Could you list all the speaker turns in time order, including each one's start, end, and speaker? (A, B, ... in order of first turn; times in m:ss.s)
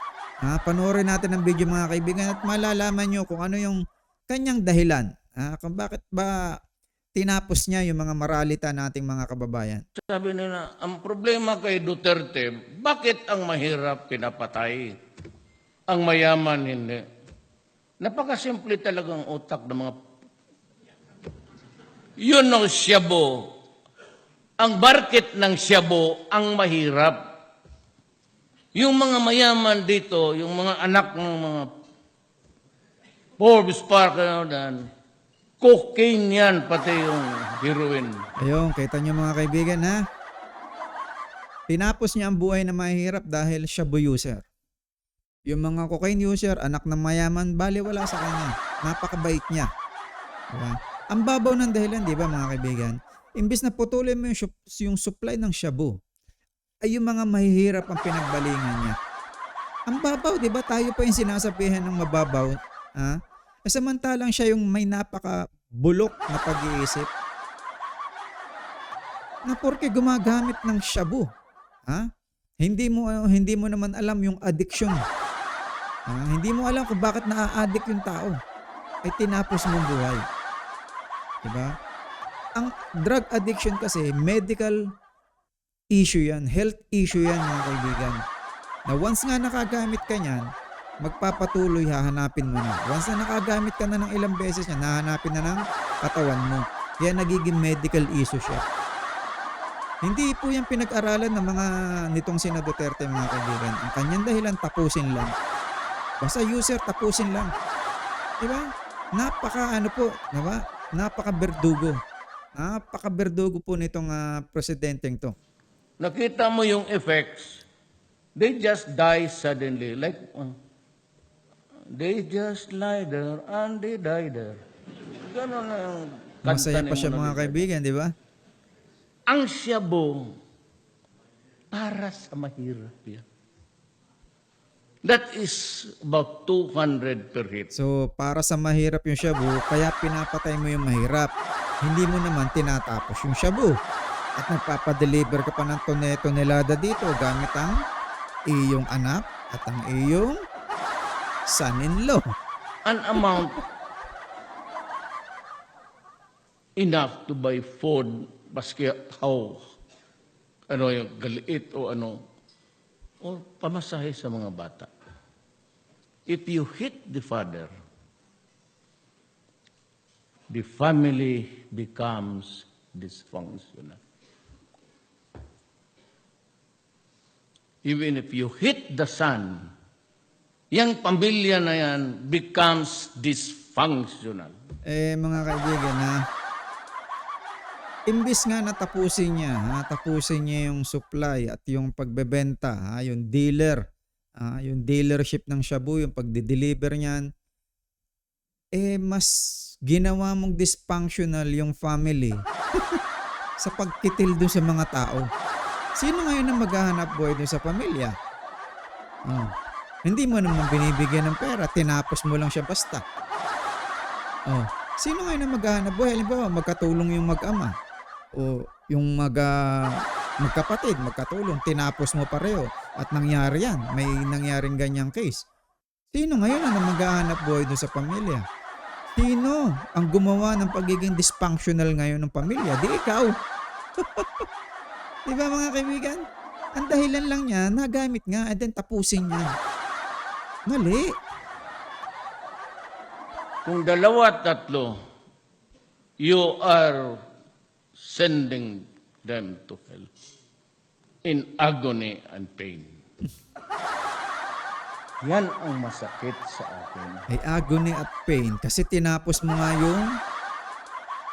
0:00.4-0:06.6 A
0:07.2-0:09.8 A
0:10.0-0:15.0 B
0:15.9-0:17.0 B
0:18.0-0:20.0 B
0:22.2-0:23.6 B
0:24.6-0:27.2 B
0:28.7-0:31.7 B
0:33.4-0:34.8 B
0:35.6-0:38.3 B
0:38.4-0:40.0 A
0:41.7-0:44.4 A
0:45.5-0:49.7 A
0:50.5-0:55.9 A
0:56.8-0:59.0 A
0:59.9-1:07.1 A
1:09.5-1:11.3 A
1:12.6-1:15.0 A
1:16.1-1:18.4 A
1:19.0-1:20.2 A
1:21.4-1:21.7 A
1:22.6-1:24.8 A
1:25.9-1:28.2 A
1:28.9-1:30.4 A
1:31.0-1:38.6 A
1:40.0-1:45.3 A
1:46.2-1:47.5 A
1:48.4-1:52.0 A
1:52.6-1:55.3 A
1:56.0-1:57.6 B
1:58.4-2:00.6 B
2:01.9-2:04.6 B
2:05.2-2:07.7 B
2:06.4-2:08.1 A
2:09.3-2:10.3 B
2:11.7-2:13.2 B
2:15.0-2:17.7 B
2:17.7-2:21.3 A
2:21.8-2:23.8 A
2:24.4-2:27.8 A
2:28.5-2:30.4 A
2:31.5-2:32.2 A
2:32.8-2:33.6 B
2:36.8-2:39.6 B
2:40.7-2:42.2 B
2:43.2-2:44.9 B
2:46.3-2:47.7 B
2:50.5-2:54.0 B
2:57.8-2:59.7 B
3:00.7-3:04.5 B
3:04.9-3:06.2 A
3:08.1-3:13.8 A
3:14.4-3:17.2 A
3:18.8-3:19.3 A
3:19.9-3:22.4 A
3:23.6-3:25.3 A
3:26.0-3:28.1 A
3:29.3-3:29.5 A
3:30.1-3:33.0 A
3:34.5-3:37.7 A
3:38.4-3:45.4 A
3:46.1-3:48.4 A
3:49.2-3:53.3 A
3:54.0-3:54.4 A
3:55.3-3:59.5 A
4:00.7-4:01.1 A
4:03.6-4:04.9 B
4:06.2-4:07.2 B
4:08.0-4:10.1 B
4:11.2-4:13.0 B
4:15.2-4:17.3 B
4:17.3-4:20.1 A